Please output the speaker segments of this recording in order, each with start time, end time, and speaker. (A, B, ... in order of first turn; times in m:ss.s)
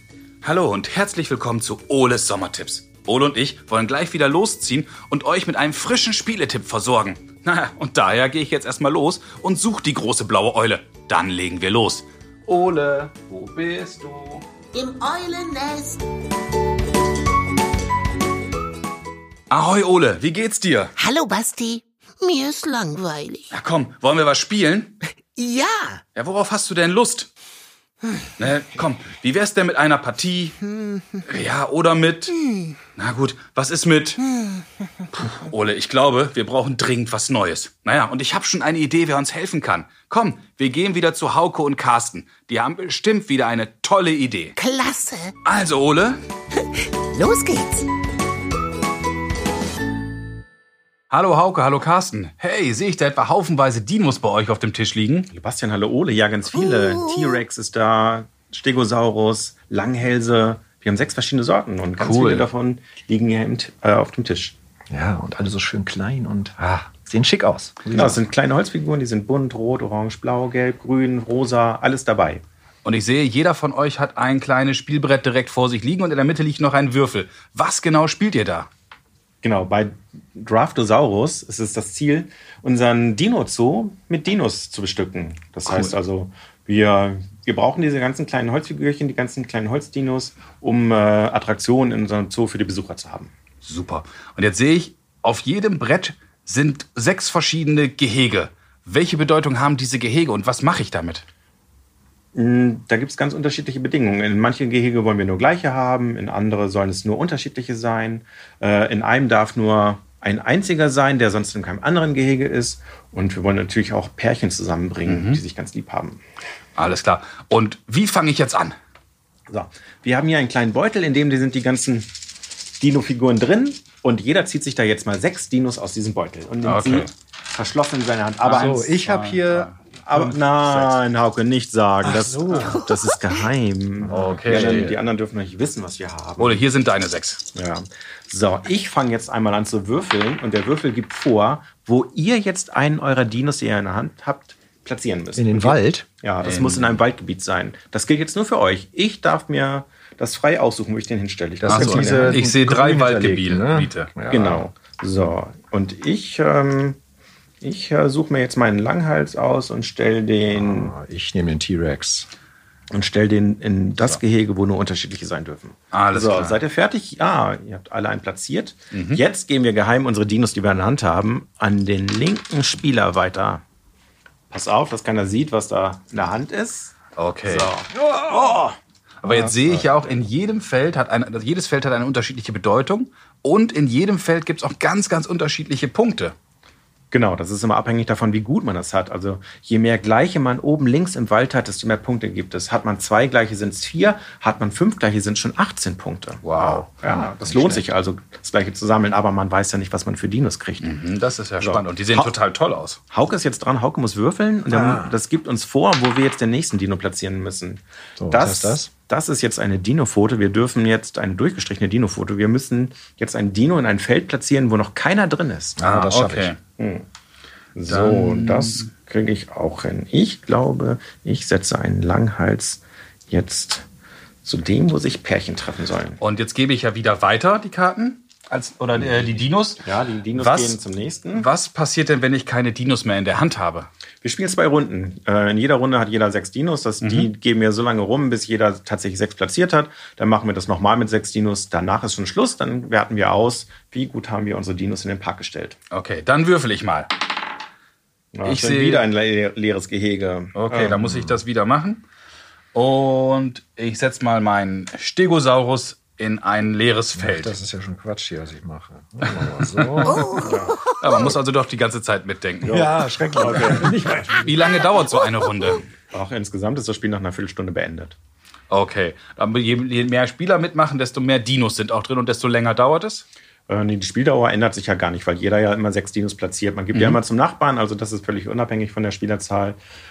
0:00.4-0:14.4 A
0:14.7-0:16.0 B
0:19.5-0:20.9 A
0:21.0-0:23.5 B
0:23.5-0:25.0 A
0:25.4-0:26.0 B
0:26.2-0:27.3 A
0:28.4-0:32.4 A
0:33.0-0:34.4 A
0:35.1-0:44.6 A
0:44.6-0:45.4 B
0:45.4-0:46.2 A
0:47.1-0:47.9 B
0:51.1-0:55.3 A
0:55.3-1:04.6 C
1:02.0-1:02.5 A
1:04.9-1:08.2 D
1:07.9-1:12.4 C
1:12.8-1:18.7 A
1:19.4-1:33.3 C
1:25.7-1:26.0 A
1:33.6-1:41.2 A
1:42.4-1:56.2 C
1:55.1-1:55.4 A
1:56.8-1:58.8 A
1:59.5-2:02.1 C
2:02.8-2:08.8 C
2:06.6-2:07.1 A
2:08.5-2:11.0 A
2:08.5-2:09.7 D
2:10.1-2:16.6 C
2:12.0-2:12.8 D
2:14.1-2:15.0 A
2:14.1-2:15.0 D
2:16.4-2:17.4 A
2:17.5-2:32.4 C
2:25.4-2:26.1 D
2:26.4-2:27.0 A
2:31.6-2:34.6 D
2:31.6-2:34.1 A
2:34.3-2:37.0 C
2:37.6-2:40.9 C
2:40.5-2:42.3 D
2:42.9-2:53.6 C
2:45.9-2:46.6 A
2:48.9-2:49.2 A
2:54.5-2:57.9 C
2:57.2-3:06.4 A
2:59.3-2:59.9 C
3:07.1-3:21.0 C
3:16.4-3:16.9 A
3:17.0-3:17.8 D
3:20.8-3:23.0 A
3:21.6-3:22.4 C
3:23.1-3:35.8 C
3:24.7-3:25.2 D
3:28.2-3:28.9 D
3:35.8-3:36.6 D
3:35.8-3:36.6 A
3:36.8-3:37.0 C
3:37.8-3:43.8 C
3:37.9-3:38.9 A
3:44.4-3:46.2 C
3:46.2-3:50.8 A
3:49.0-3:51.5 C
3:51.3-3:53.9 A
3:54.2-4:05.8 C
3:57.0-3:57.3 A
4:05.9-4:07.1 A
4:08.3-4:11.3 C
4:08.4-4:09.1 A
4:10.6-4:12.0 A
4:12.7-4:17.6 A
4:17.2-4:20.5 D
4:19.8-4:20.3 A
4:20.4-4:20.8 C
4:20.8-4:22.8 A
4:22.6-4:24.0 C
4:22.7-4:24.6 D
4:24.4-4:25.9 A
4:26.1-4:28.2 C
4:28.7-4:33.3 A
4:33.7-4:39.8 C
4:36.9-4:37.2 A